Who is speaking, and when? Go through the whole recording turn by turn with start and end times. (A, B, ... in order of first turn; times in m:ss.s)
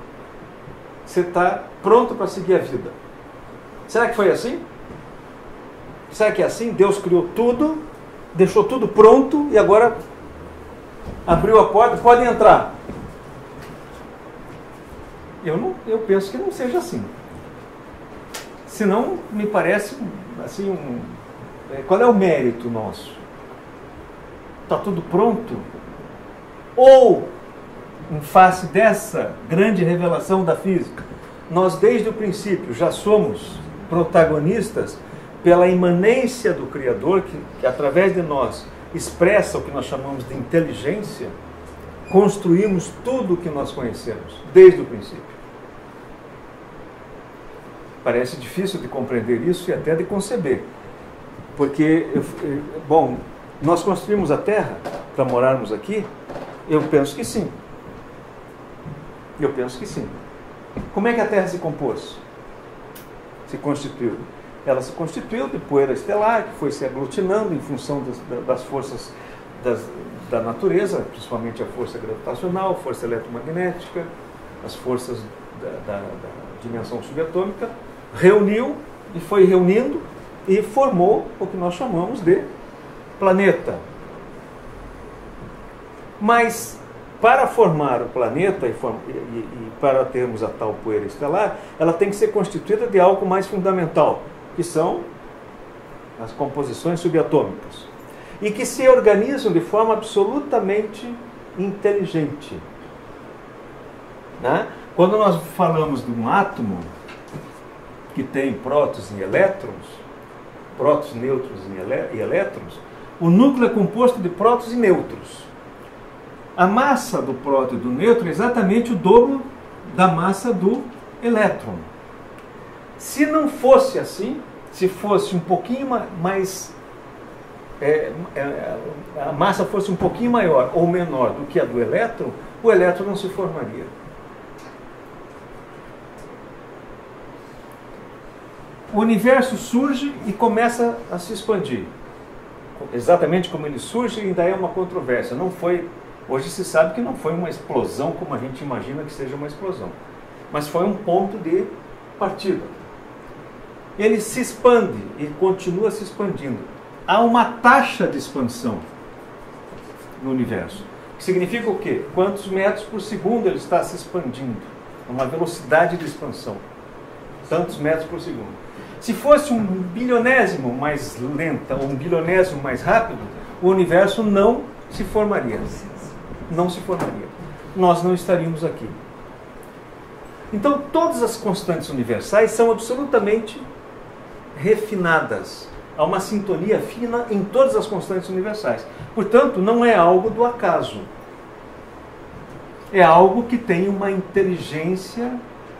0:01.0-0:03.0 A
0:03.9-0:04.6 A
0:06.1-0:10.0 A
0:11.2-0:12.8 A
0:15.4-0:17.1 A
0:18.7-0:23.2 A
0:24.7-0:25.7 A
0:26.8-0:27.3 A
0:28.1-0:41.3 A
0:42.1-0:45.4 A
0:48.0-0:50.7 A
0:51.6-0:56.1 A
0:56.7-0:57.6 A
0:59.4-1:00.2 A
1:00.9-1:02.2 A
1:03.5-1:14.1 A
1:14.6-1:22.5 A
1:23.2-1:23.8 A
1:26.2-1:35.1 A
1:36.2-1:37.9 A
1:38.4-1:42.6 A
1:44.4-1:46.9 A
1:48.1-1:50.0 A
1:50.7-1:55.5 A
1:56.6-2:01.9 A
2:03.0-2:06.7 A
2:07.8-2:13.9 A
2:18.9-2:21.9 A
2:22.8-2:30.0 A
2:30.5-2:32.8 A
2:34.0-2:38.9 A
2:40.2-2:46.6 A
2:47.5-2:55.8 A
2:56.5-2:59.0 A
3:00.5-3:03.7 A
3:04.5-3:11.1 A
3:12.9-3:15.4 A